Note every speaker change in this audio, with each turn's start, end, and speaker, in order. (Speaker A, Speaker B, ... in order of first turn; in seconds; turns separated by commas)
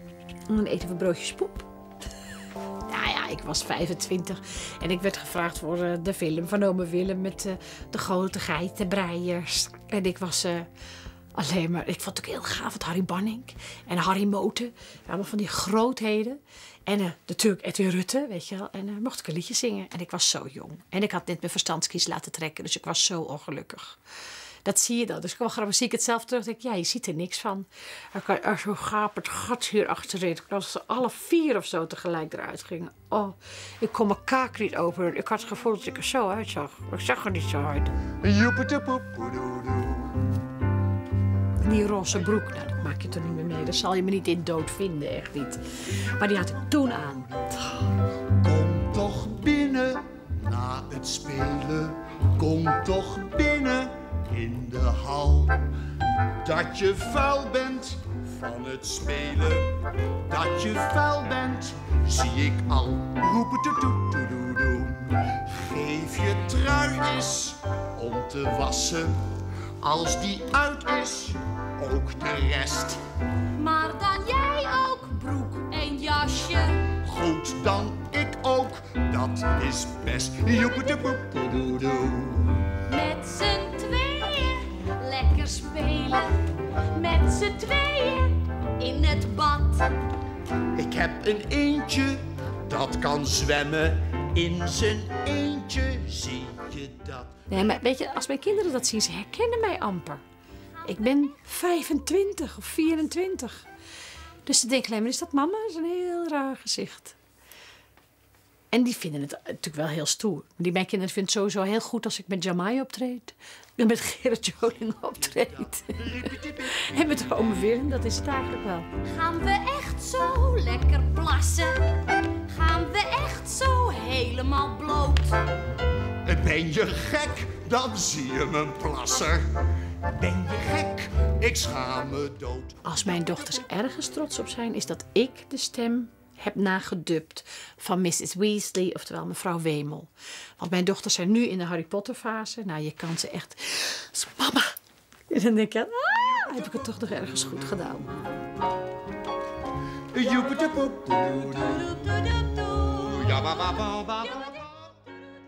Speaker A: 0.5-1.7, Speaker A: 2.9-10.7, Speaker A: 11.3-24.0, Speaker A: 24.6-37.9, Speaker B: 38.2-40.3, Speaker A: 41.6-47.9, Speaker B: 48.3-55.7, Speaker B: 56.4-69.2, Speaker B: 69.8-73.0, Speaker C: 73.5-76.9, Speaker B: 76.9-82.8, Speaker C: 82.8-90.0, Speaker B: 90.7-97.4, Speaker A: 97.5-100.2, Speaker A: 100.8-103.6, Speaker A: 104.4-107.2, Speaker A: 108.7-118.9, Speaker B: 115.0-117.5, Speaker C: 119.0-121.9, Speaker C: 122.4-125.4, Speaker B: 126.2-133.6, Speaker A: 132.8-144.7, Speaker A: 145.3-148.2, Speaker B: 150.1-155.1, Speaker C: 152.4-152.8